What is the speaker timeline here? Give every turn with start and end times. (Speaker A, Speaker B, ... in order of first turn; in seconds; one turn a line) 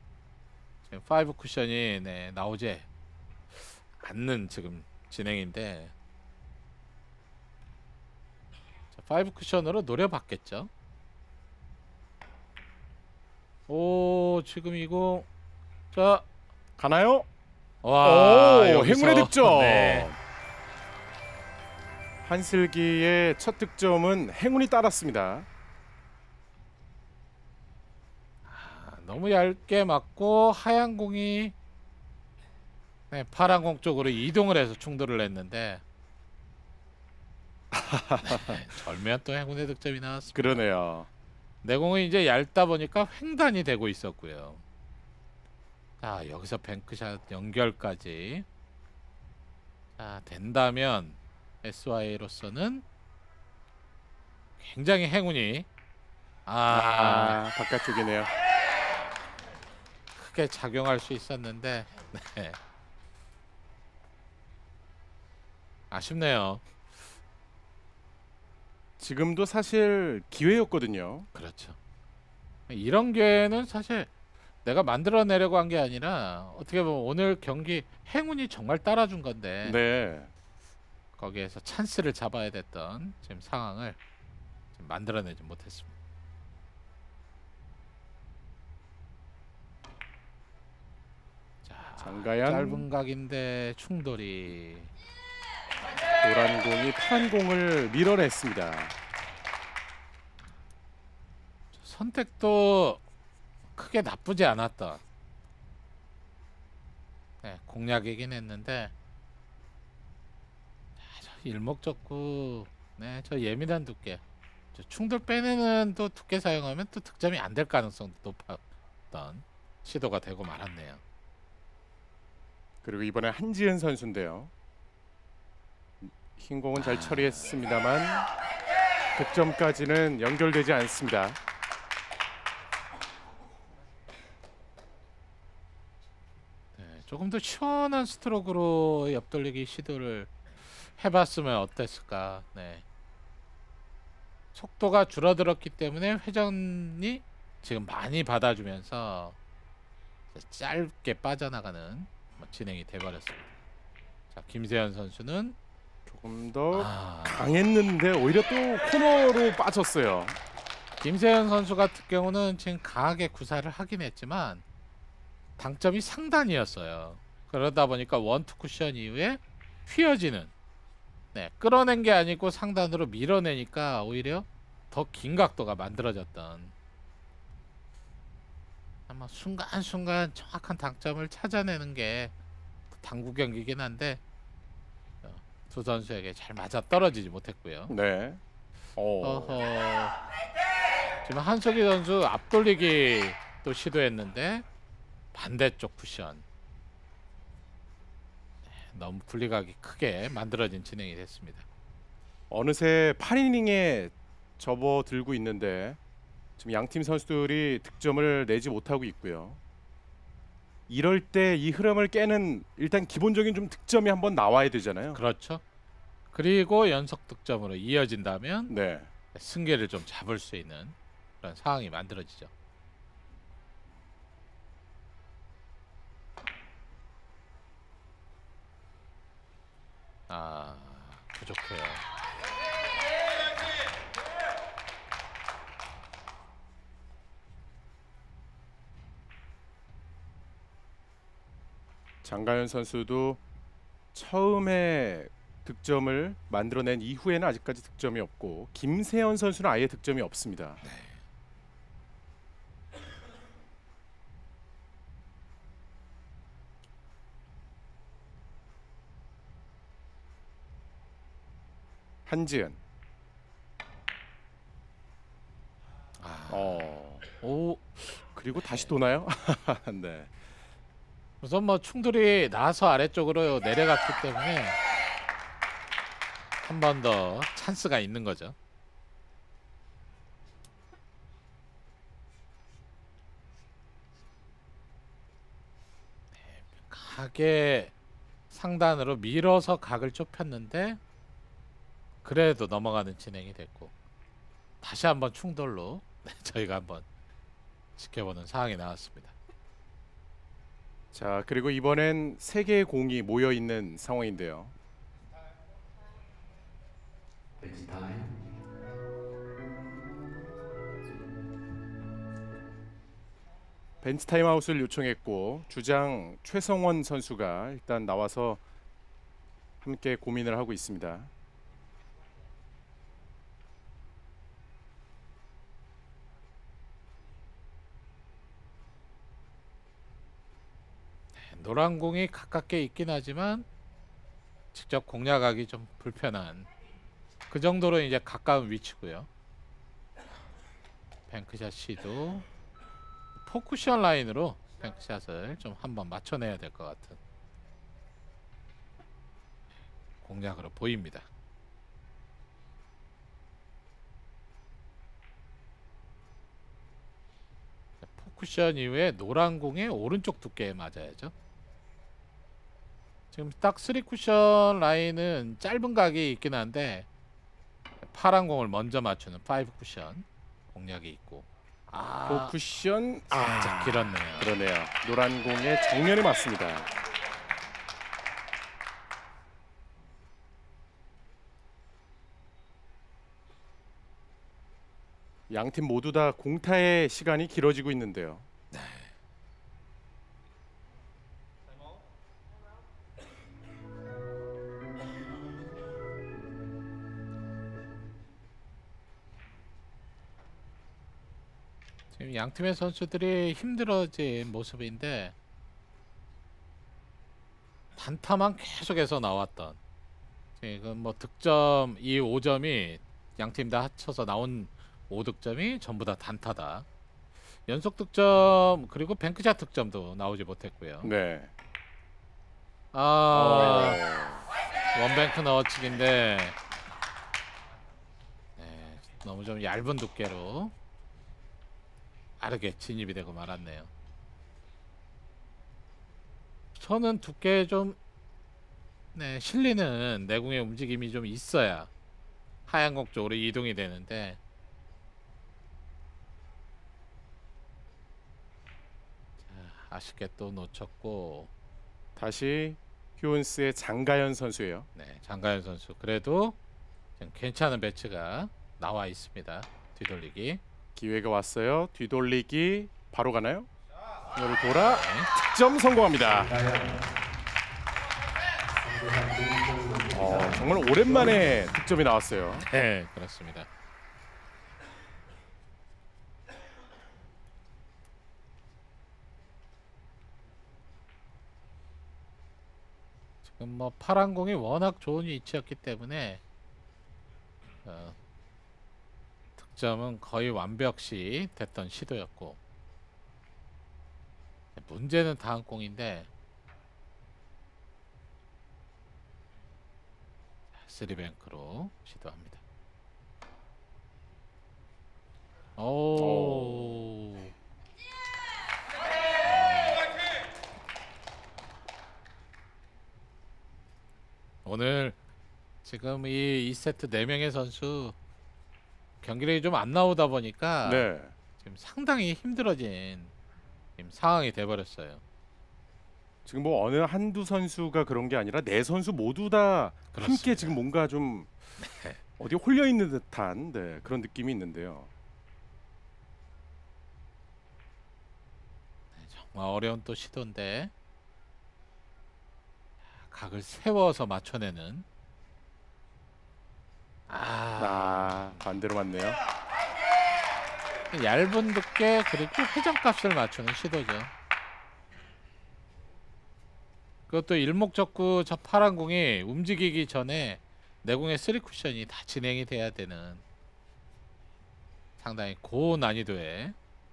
Speaker A: 0.9-2.9
Speaker A: 3.6-5.9
Speaker A: 8.9-10.7
Speaker A: 13.7-15.3
Speaker A: 15.9-16.2
Speaker B: 16.8-17.3
Speaker A: 17.8-20.1
Speaker B: 18.0-20.2
Speaker B: 22.2-25.5
Speaker A: 28.4-31.5
Speaker A: 33.1-35.8
Speaker B: 37.7-38.7
Speaker A: 38.2-40.6
Speaker B: 40.3-41.1
Speaker A: 41.6-44.6
Speaker A: 46.0-48.5
Speaker A: 50.0-52.8
Speaker A: 54.6-55.7
Speaker A: 56.5-57.4
Speaker B: 56.7-58.3
Speaker A: 60.1-62.6
Speaker A: 65.9-66.6
Speaker B: 69.0-71.3
Speaker A: 71.3-71.8
Speaker A: 72.7-74.1
Speaker A: 74.6-79.8
Speaker B: 79.6-80.3
Speaker A: 81.2-84.0
Speaker A: 84.7-85.9
Speaker A: 91.6-94.9
Speaker B: 92.0-92.9
Speaker B: 96.2-98.9
Speaker A: 101.7-103.0
Speaker A: 103.7-105.0
Speaker A: 107.4-108.9
Speaker A: 111.0-114.2
Speaker A: 114.7-121.0
Speaker B: 122.8-124.5
Speaker B: 126.0-128.3
Speaker A: 126.7-127.6
Speaker B: 129.1-131.4
Speaker A: 136.8-142.8
Speaker A: 144.5-149.4
Speaker A: 150.3-153.5
Speaker A: 154.3-155.6
Speaker B: 156.1-160.4
Speaker A: 156.7-157.5
Speaker A: 161.0-164.6
Speaker A: 165.6-170.5
Speaker A: 171.3-176.7
Speaker A: 179.1-182.3
Speaker A: 182.9-184.2
Speaker A: 185.2-187.9
Speaker B: 187.9-188.4
Speaker B: 188.9-189.6
Speaker A: 189.2-190.1
Speaker A: 191.2-194.6
Speaker A: 195.3-196.4
Speaker A: 198.8-201.6
Speaker B: 202.5-206.0
Speaker B: 206.6-209.6
Speaker B: 210.9-215.2
Speaker A: 215.1-215.6
Speaker A: 216.3-218.7
Speaker B: 218.7-219.1
Speaker A: 219.3-222.5
Speaker A: 230.3-232.0
Speaker B: 242.2-243.4
Speaker B: 244.1-250.8
Speaker A: 250.8-251.2
Speaker B: 262.2-262.8
Speaker A: 266.2-268.0
Speaker B: 266.5-267.2
Speaker B: 268.2-270.3
Speaker A: 268.5-268.9
Speaker A: 271.4-274.8
Speaker A: 276.6-278.6
Speaker A: 286.4-287.9
Speaker A: 288.5-291.0
Speaker A: 292.2-293.9
Speaker A: 294.8-297.1
Speaker A: 298.0-299.3
Speaker B: 301.1-304.7
Speaker C: 307.6-308.3
Speaker B: 314.0-318.6
Speaker B: 319.8-321.3
Speaker A: 331.4-333.6
Speaker A: 334.7-336.7
Speaker A: 337.5-339.3
Speaker A: 341.3-342.4
Speaker A: 343.4-347.2
Speaker A: 350.2-351.2
Speaker A: 358.0-361.3
Speaker A: 363.3-367.1
Speaker A: 368.0-372.5
Speaker B: 372.2-376.9
Speaker A: 373.3-374.6
Speaker B: 385.5-388.5
Speaker A: 388.7-389.1
Speaker A: 402.1-405.3
Speaker A: 407.9-409.8
Speaker A: 410.6-416.9
Speaker A: 417.6-421.1
Speaker B: 421.0-421.5
Speaker A: 422.9-424.0
Speaker B: 423.3-424.4
Speaker A: 424.9-426.6
Speaker A: 428.6-430.7
Speaker A: 432.4-433.9
Speaker A: 436.7-438.0
Speaker A: 439.1-441.9
Speaker A: 442.7-444.4
Speaker A: 449.4-451.5
Speaker B: 452.2-454.9
Speaker A: 454.9-456.6
Speaker A: 457.2-460.6
Speaker B: 460.9-463.7
Speaker B: 464.4-466.5
Speaker A: 464.7-465.3
Speaker C: 466.2-467.0
Speaker C: 468.7-471.5
Speaker B: 470.1-472.7
Speaker A: 472.7-473.7
Speaker A: 483.4-486.4
Speaker A: 487.8-488.1
Speaker A: 489.6-492.6
Speaker A: 494.8-496.3
Speaker A: 500.8-502.6
Speaker A: 505.8-507.5
Speaker B: 506.1-507.0
Speaker A: 509.4-510.0
Speaker A: 514.6-515.2
Speaker A: 515.8-518.1
Speaker A: 519.2-523.3
Speaker B: 520.8-521.3
Speaker A: 524.0-525.2
Speaker B: 526.5-531.5
Speaker A: 530.1-530.8
Speaker A: 531.8-532.2
Speaker B: 532.4-535.1
Speaker A: 539.1-540.9
Speaker A: 543.1-545.0
Speaker A: 547.3-548.7
Speaker B: 547.8-549.4
Speaker A: 551.1-554.3
Speaker A: 557.3-563.4
Speaker A: 565.2-566.8